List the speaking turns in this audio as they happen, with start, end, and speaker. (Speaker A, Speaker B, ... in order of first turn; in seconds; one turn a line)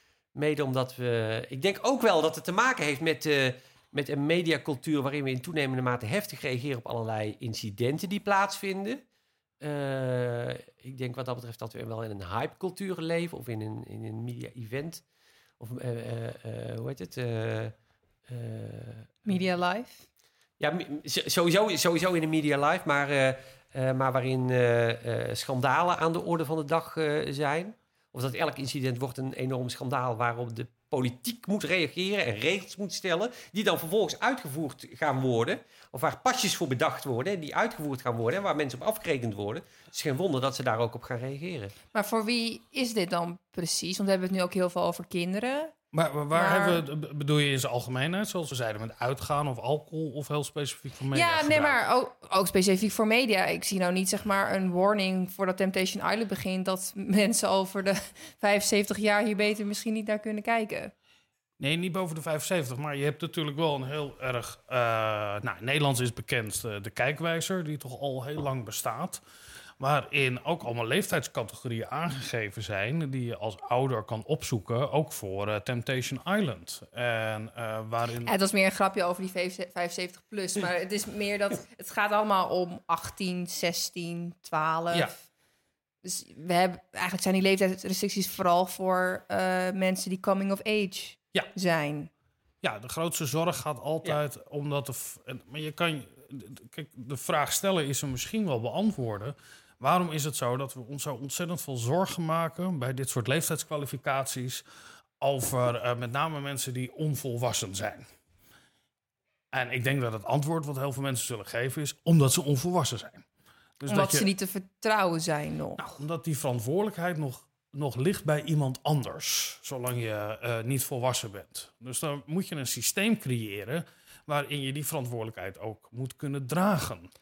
Speaker A: 0.3-9.0
Speaker A: 9.6-15.0
Speaker A: 15.6-17.7
Speaker A: 18.3-19.2
Speaker B: 19.2-20.0
Speaker A: 20.6-41.7
Speaker B: 41.9-45.7
Speaker C: 45.9-51.8
Speaker B: 46.3-46.8
Speaker B: 51.1-60.9
Speaker C: 61.6-69.2
Speaker C: 69.8-78.3
Speaker B: 78.2-85.2
Speaker B: 86.0-92.1
Speaker C: 92.6-104.6
Speaker C: 105.2-108.0
Speaker C: 109.5-113.3
Speaker C: 113.8-114.3
Speaker B: 113.9-115.8
Speaker C: 115.8-127.1